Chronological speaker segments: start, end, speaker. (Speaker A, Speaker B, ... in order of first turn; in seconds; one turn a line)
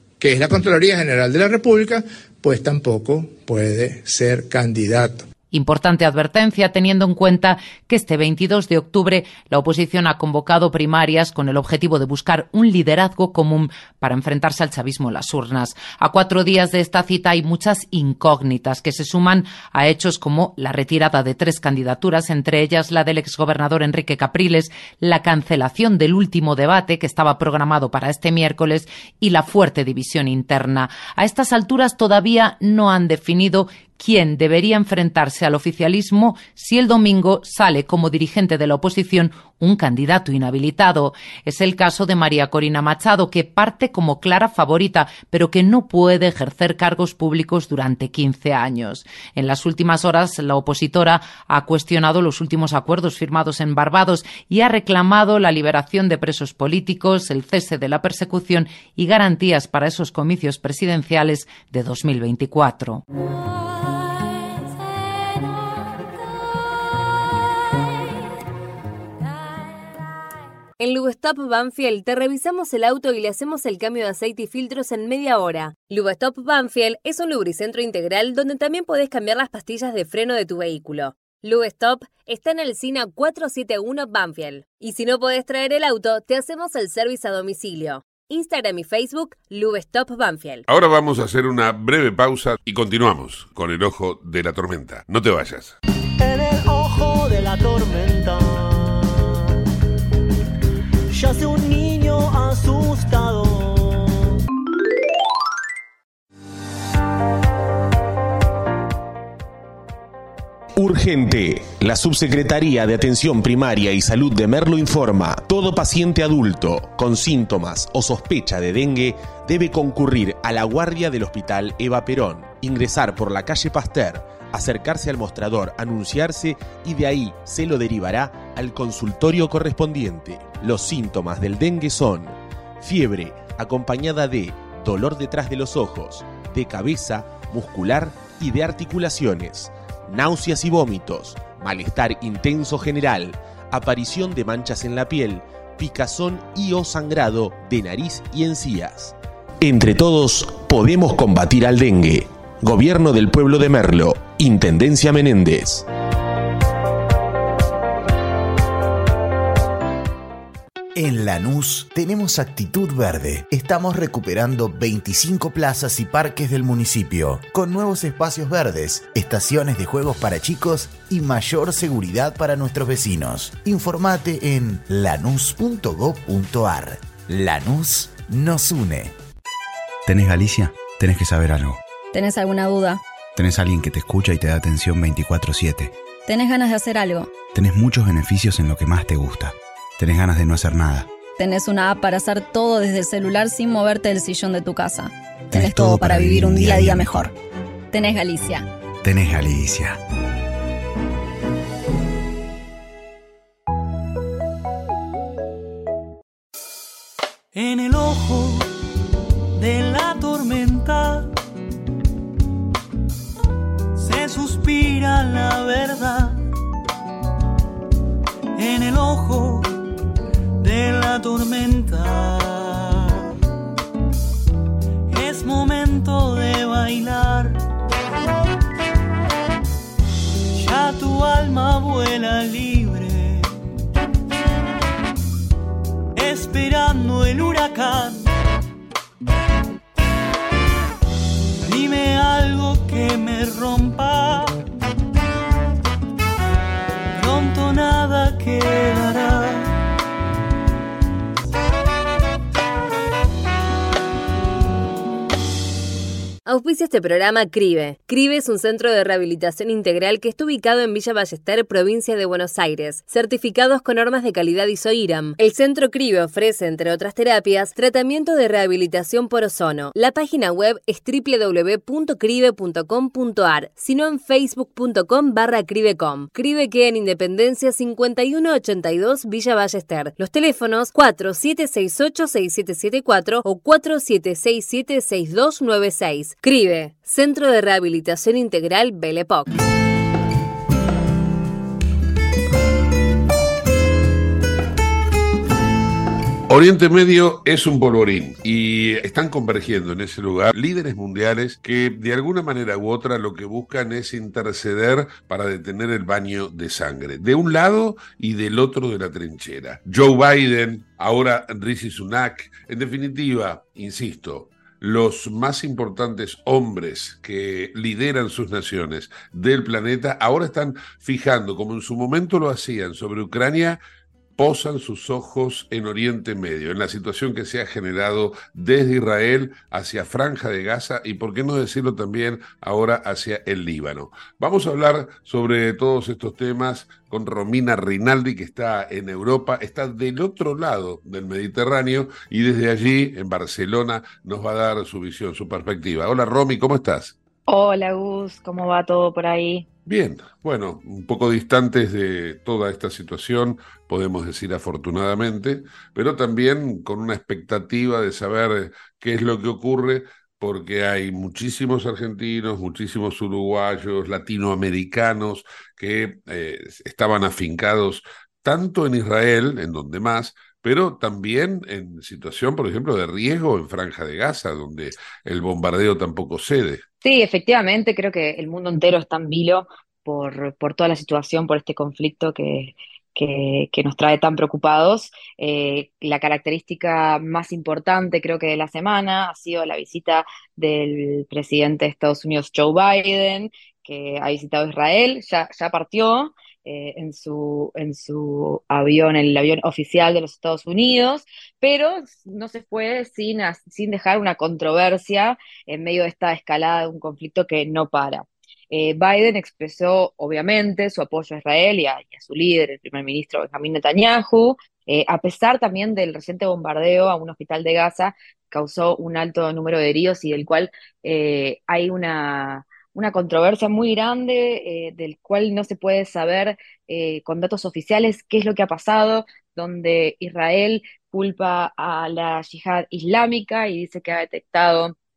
Speaker A: 0.2-5.3
Speaker B: 5.5-63.0
Speaker C: 70.8-90.6
Speaker D: 90.7-95.8
Speaker E: 96.2-99.5
Speaker E: 101.1-104.4
Speaker F: 110.8-155.8
Speaker G: 161.0-179.1
Speaker H: 180.1-181.8
Speaker I: 182.1-183.0
Speaker H: 183.4-185.9
Speaker I: 186.3-187.4
Speaker H: 187.4-191.1
Speaker I: 191.4-197.3
Speaker H: 195.5-197.2
Speaker I: 197.9-198.7
Speaker H: 199.0-200.0
Speaker E: 207.5-208.7
Speaker E: 209.5-211.3
Speaker E: 213.9-216.5
Speaker E: 218.6-219.7
Speaker E: 220.6-223.2
Speaker E: 225.1-227.6
Speaker E: 230.5-233.5
Speaker E: 236.2-238.3
Speaker E: 241.7-244.6
Speaker E: 247.1-249.8
Speaker C: 256.5-289.5
Speaker D: 296.5-323.8
Speaker D: 324.4-347.2
Speaker J: 347.5-349.7
Speaker D: 349.9-376.8
Speaker J: 377.0-435.0